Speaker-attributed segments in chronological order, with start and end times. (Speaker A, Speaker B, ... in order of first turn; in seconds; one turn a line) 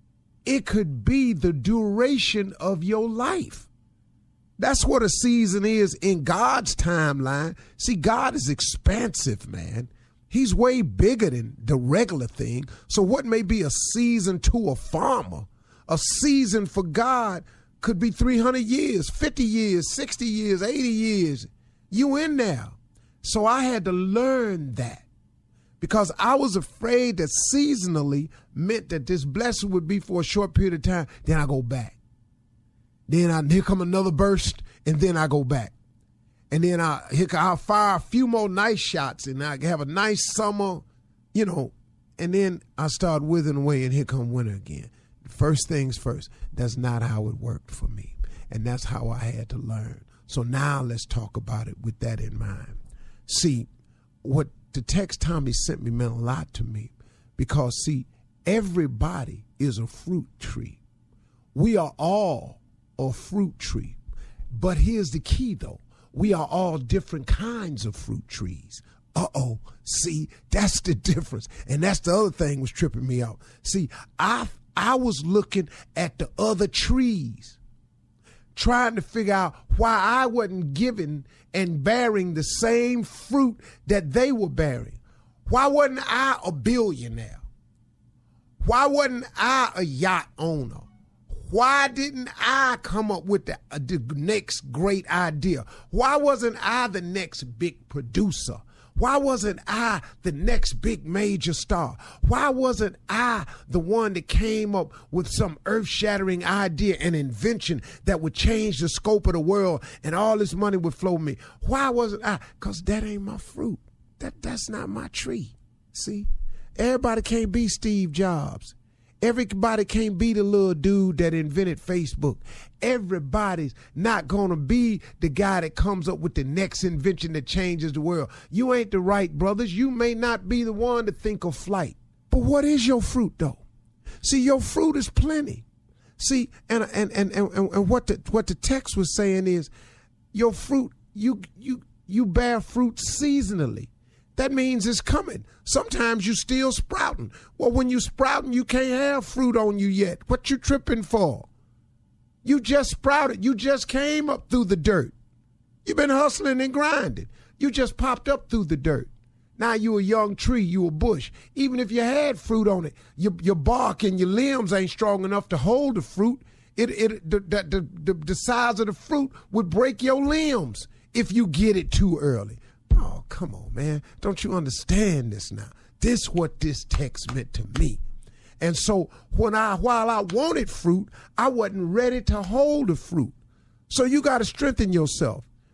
Speaker A: 0.4-3.7
Speaker A: 4.6-25.0
Speaker A: 25.8-32.0
Speaker A: 33.1-35.7
Speaker A: 36.5-53.7
Speaker A: 54.2-60.8
Speaker A: 61.5-64.0
Speaker A: 64.5-77.6
Speaker A: 78.5-87.4
Speaker A: 88.6-133.6
Speaker A: 134.2-135.6
Speaker A: 136.2-139.7
Speaker A: 140.3-151.5
Speaker A: 152.4-155.1
Speaker A: 155.8-178.0
Speaker A: 178.6-183.3
Speaker A: 183.9-185.5